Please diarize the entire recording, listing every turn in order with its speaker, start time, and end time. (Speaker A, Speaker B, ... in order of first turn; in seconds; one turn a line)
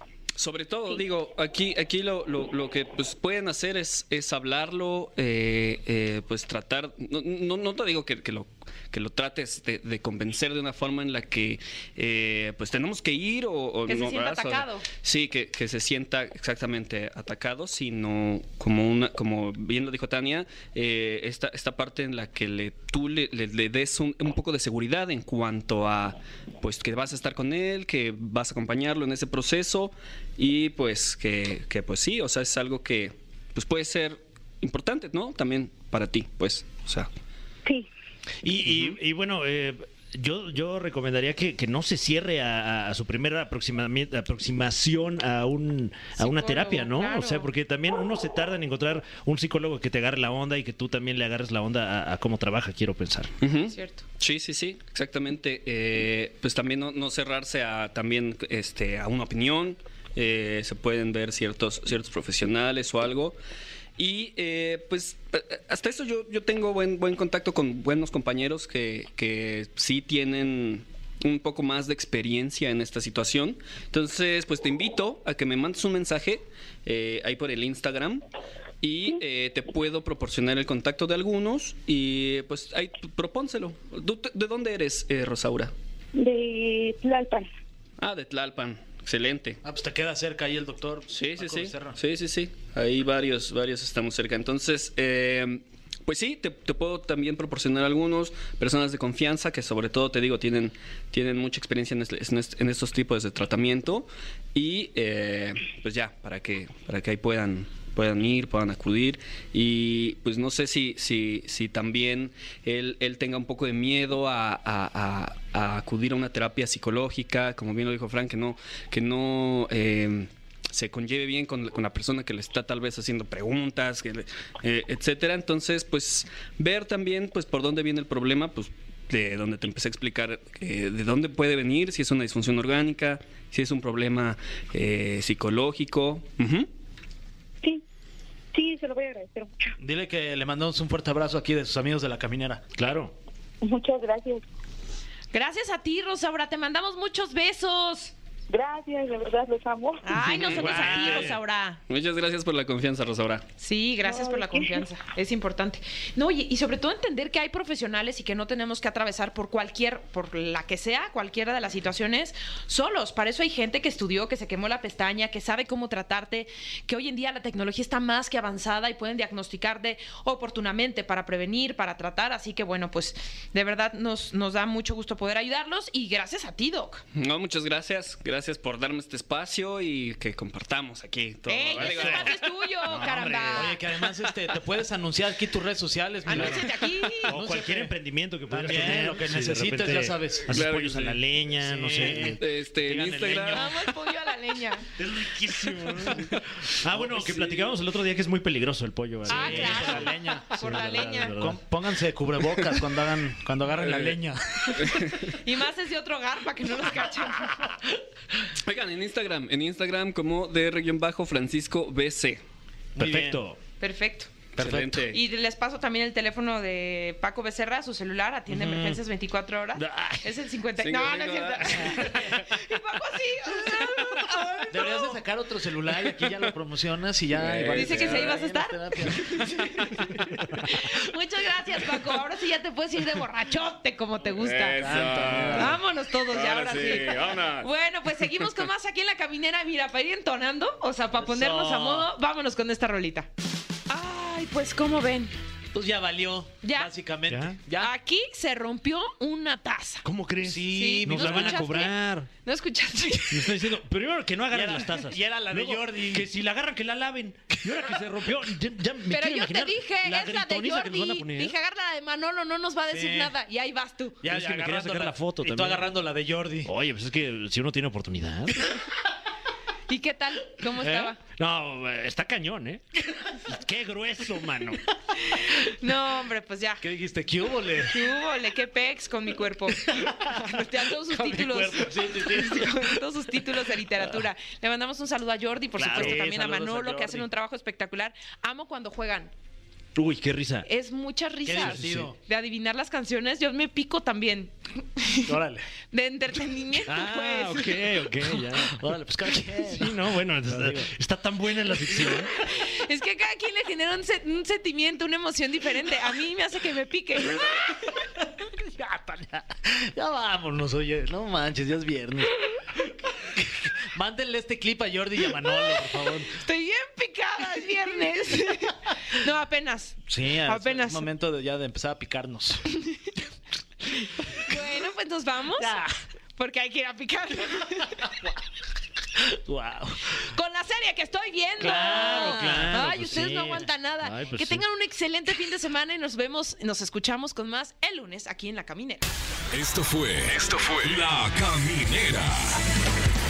Speaker A: 0.4-37.1
Speaker B: 13.9-14.9
Speaker C: 38.4-53.3
Speaker B: 46.2-47.5
Speaker A: 53.4-63.4
Speaker B: 53.7-54.0
Speaker A: 64.0-78.2
Speaker A: 78.8-85.7
Speaker D: 86.2-87.5
Speaker A: 88.0-89.6
Speaker E: 89.6-92.0
Speaker A: 91.1-136.7
Speaker D: 138.5-139.8
Speaker E: 139.8-142.7
Speaker C: 142.8-143.1
Speaker D: 143.6-144.4
Speaker B: 145.3-148.1
Speaker D: 148.5-150.1
Speaker B: 150.0-151.8
Speaker A: 150.3-151.3
Speaker C: 150.5-151.3
Speaker A: 151.9-153.4
Speaker B: 153.6-177.1
Speaker D: 154.0-154.9
Speaker A: 177.1-182.4
Speaker B: 181.5-183.8
Speaker C: 181.8-182.2
Speaker C: 182.9-183.8
Speaker E: 183.5-187.9
Speaker B: 186.3-187.3
Speaker C: 186.3-186.6
Speaker C: 187.2-193.9
Speaker E: 188.5-192.4
Speaker A: 190.5-191.1
Speaker A: 192.4-193.7
Speaker B: 193.5-194.9
Speaker C: 195.0-201.6
Speaker E: 196.9-197.7
Speaker E: 199.3-200.6
Speaker B: 199.3-201.3
Speaker E: 201.3-204.9
Speaker A: 203.8-204.2
Speaker A: 204.8-205.3
Speaker B: 205.4-207.7
Speaker A: 208.6-212.4
Speaker C: 213.0-213.6
Speaker E: 213.0-213.4
Speaker B: 213.8-214.5
Speaker C: 214.6-215.1
Speaker A: 214.6-215.2
Speaker B: 215.1-225.2
Speaker E: 218.5-219.0
Speaker E: 219.8-220.2
Speaker A: 220.8-222.3
Speaker E: 224.7-229.2
Speaker A: 227.4-228.3
Speaker B: 227.7-243.3
Speaker A: 234.3-235.8
Speaker E: 234.8-235.8
Speaker A: 236.3-237.7
Speaker E: 241.2-242.1
Speaker B: 243.9-245.3
Speaker E: 245.7-247.9
Speaker B: 246.6-246.9
Speaker C: 247.3-247.6
Speaker B: 247.8-250.1
Speaker C: 250.0-252.3
Speaker E: 250.4-251.7
Speaker B: 250.7-253.6
Speaker C: 253.3-261.6
Speaker E: 254.5-256.3
Speaker B: 259.1-264.2
Speaker E: 262.9-263.4
Speaker E: 264.2-266.7
Speaker C: 264.3-265.9
Speaker C: 266.6-268.8
Speaker B: 269.9-271.2
Speaker C: 270.8-272.9
Speaker C: 273.5-274.8
Speaker B: 275.2-276.8
Speaker E: 276.8-278.0
Speaker B: 277.8-289.3
Speaker E: 279.8-280.2
Speaker E: 281.1-282.7
Speaker C: 285.8-286.2
Speaker E: 285.9-287.3
Speaker C: 289.9-290.7
Speaker B: 290.6-295.4
Speaker E: 291.5-292.2
Speaker C: 291.6-292.1
Speaker E: 295.3-295.7
Speaker B: 295.9-297.9
Speaker C: 296.9-298.9
Speaker E: 298.7-300.9
Speaker C: 299.6-302.3
Speaker B: 302.4-307.8
Speaker E: 308.7-312.4
Speaker E: 313.4-316.4
Speaker B: 316.4-321.1
Speaker E: 320.1-322.6
Speaker B: 324.5-325.8
Speaker E: 325.6-325.9
Speaker B: 326.4-328.1
Speaker E: 329.2-330.1
Speaker B: 330.2-339.1
Speaker C: 331.6-334.6
Speaker F: 339.5-342.6